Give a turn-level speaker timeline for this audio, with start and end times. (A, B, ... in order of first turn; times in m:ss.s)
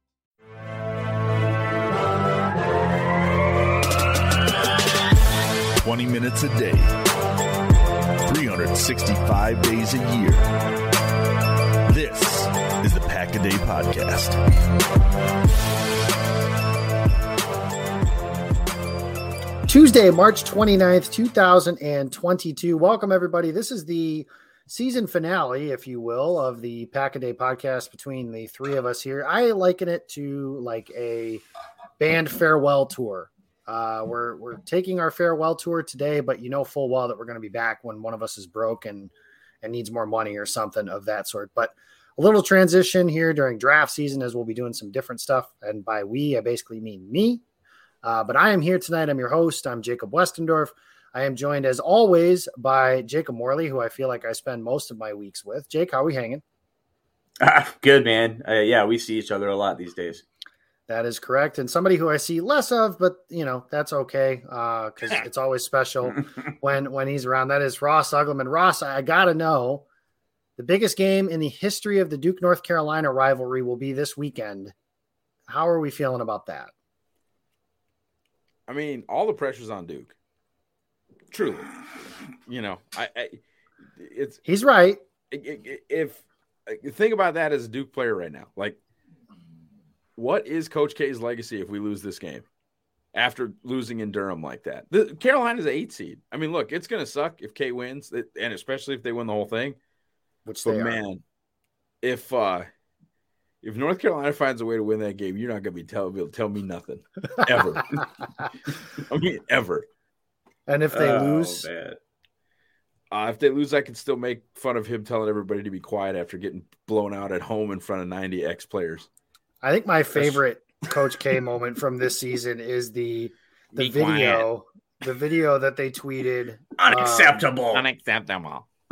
0:05.8-0:06.9 A
0:08.2-0:10.5 A
0:11.9-0:14.4 A
0:19.7-0:31.4 B
0:32.0-0:39.1 B
0:39.6-0:47.4 B
0:48.0-0:56.4 B
0:57.4-1:00.2 C
1:00.9-1:09.8 B
1:10.6-1:14.7 B
1:15.5-1:16.7 B
1:18.7-1:20.1 D
1:21.3-1:21.7 D
1:22.5-1:23.4 D
1:24.0-1:24.4 D
1:24.4-1:25.0 B
1:25.3-1:28.8 D
1:30.2-1:32.4 D
1:33.1-1:39.8 D
1:40.4-1:41.0 B
1:40.6-1:41.2 D
1:42.0-1:42.7 D
1:43.6-1:48.0 D
1:49.0-1:49.8 D
1:50.7-1:51.7 B
1:50.9-1:52.0 C
1:53.1-1:59.1 D
1:59.6-2:07.5 B
2:03.7-2:04.5 D
2:06.8-2:07.8 C
2:07.7-2:08.6 D